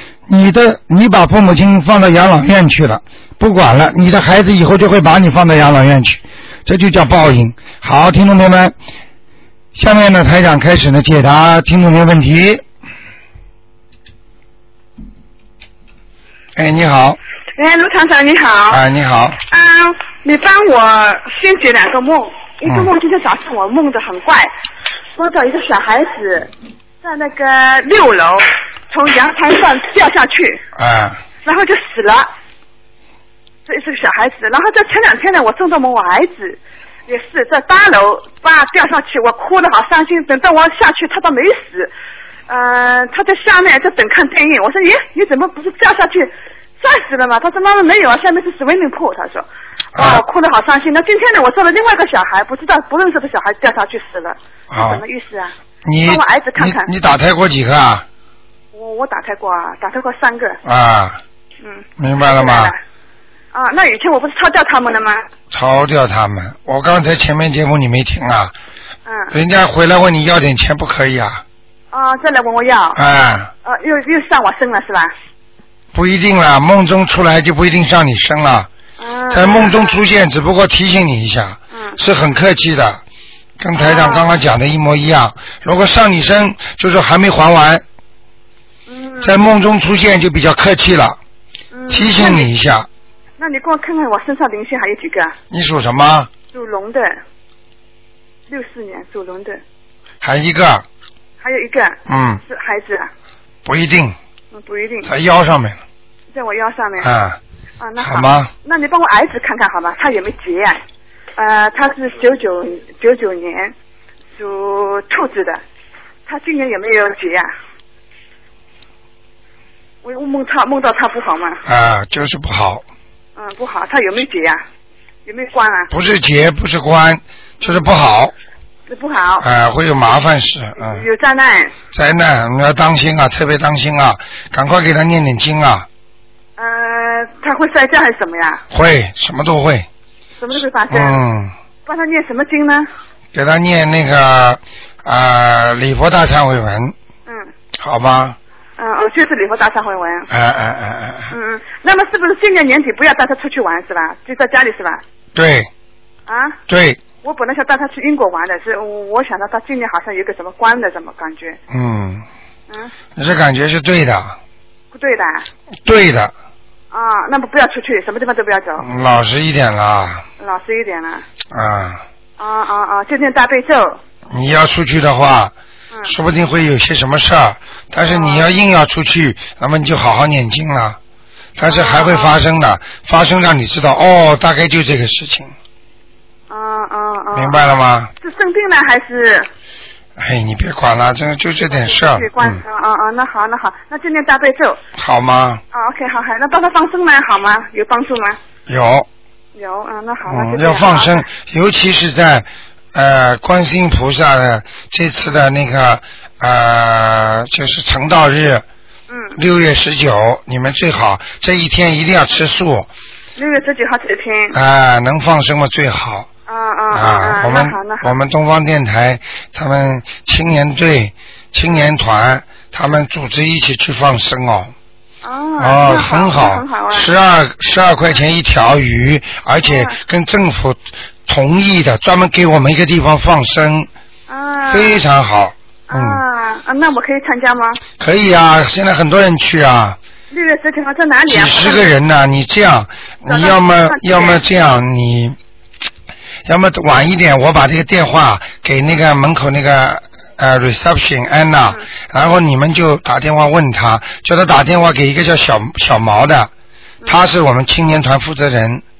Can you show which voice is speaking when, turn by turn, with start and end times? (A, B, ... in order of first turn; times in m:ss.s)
0:00.3-0:08.7 A
0:09.7-0:12.6 A
0:16.6-0:17.2 A
0:17.6-0:18.8 B
0:18.7-0:19.4 A
0:19.5-0:24.5 B
0:22.6-0:22.9 A
0:25.2-0:26.5 B
0:27.0-0:30.6 B
0:30.8-0:31.2 A
0:31.4-0:32.3 B
0:33.7-0:41.9 B
0:42.5-0:55.5 B
0:49.9-0:50.2 A
0:54.7-0:55.0 A
0:55.8-0:58.0 A
0:56.0-0:56.9 B
0:58.7-1:00.6 B
1:00.6-1:01.2 A
1:01.6-1:02.8 B
1:02.0-1:02.7 A
1:03.5-1:05.2 B
1:05.5-1:08.5 A
1:09.0-1:09.3 B
1:09.3-1:11.4 A
1:11.9-1:13.0 B
1:12.9-1:13.5 A
1:13.6-1:15.1 B
1:15.9-1:18.7 A
1:19.0-1:20.0 B
1:19.3-1:23.0 A
1:21.7-1:22.0 B
1:23.6-1:27.8 A
1:23.8-1:24.3 B
1:28.9-1:29.4 B
1:29.2-1:31.2 A
1:31.7-1:32.5 B
1:31.9-1:32.9 A
1:33.4-1:35.3 B
1:35.5-1:36.3 A
1:36.5-1:37.2 B
1:38.5-1:39.6 B
1:40.2-1:40.8 A
1:41.4-1:43.1 B
1:42.1-1:42.4 A
1:43.6-1:44.2 A
1:44.5-1:45.1 B
1:45.0-1:45.8 A
1:46.3-1:47.1 B
1:47.0-1:47.4 A
1:47.8-1:50.8 B
1:48.0-1:48.5 A
1:51.4-1:53.7 B
1:54.4-1:55.6 B
1:56.3-1:57.5 B
2:00.0-2:01.6 B
2:01.6-2:02.8 A
2:03.4-2:04.6 B
2:05.2-2:05.9 B
2:05.9-2:08.3 A
2:08.9-2:09.4 B
2:09.4-2:11.0 A
2:10.8-2:11.7 B
2:11.9-2:15.9 A
2:16.6-2:18.6 B
2:18.7-2:19.9 A
2:20.4-2:21.2 B
2:20.9-2:21.5 A
2:21.8-2:22.9 B
2:23.3-2:26.9 A
2:27.8-2:28.4 A
2:28.8-2:30.3 B
2:30.3-2:31.4 A
2:31.3-2:35.0 B
2:35.3-2:35.7 A
2:36.3-2:36.6 B
2:36.7-2:37.0 A
2:37.2-2:41.6 B
2:41.7-2:42.2 A
2:43.2-2:44.4 A
2:44.9-2:45.4 B
2:45.8-2:46.3 A
2:46.9-2:48.9 B
2:48.8-2:50.2 A
2:50.4-2:51.2 B
2:51.5-2:52.0 A
2:52.4-2:54.0 B
2:54.3-2:55.5 A
2:56.0-3:01.0 A
2:58.0-2:58.5 B
3:01.6-3:05.5 A
3:01.7-3:02.4 B
3:06.5-3:09.5 B
3:07.3-3:08.1 A
3:10.2-3:12.6 A
3:11.7-3:14.8 B
3:15.0-3:15.6 A
3:15.7-3:18.4 B
3:18.7-3:19.1 A
3:19.6-3:21.2 B
3:20.2-3:28.6 A
3:29.1-3:29.4 B
3:29.4-3:32.9 A
3:33.4-3:34.6 B
3:34.5-3:36.3 A
3:36.5-3:38.1 B
3:36.9-3:44.7 A
3:45.2-3:47.1 B
3:45.6-3:53.9 A
3:49.6-3:50.0 B
3:54.3-3:55.0 B
3:54.7-3:56.2 A
3:55.9-3:57.8 B
3:58.0-4:00.0 A
4:00.3-4:01.9 B
4:01.3-4:05.4 A
4:03.3-4:04.4 B
4:06.4-4:16.5 A
4:17.0-4:18.8 A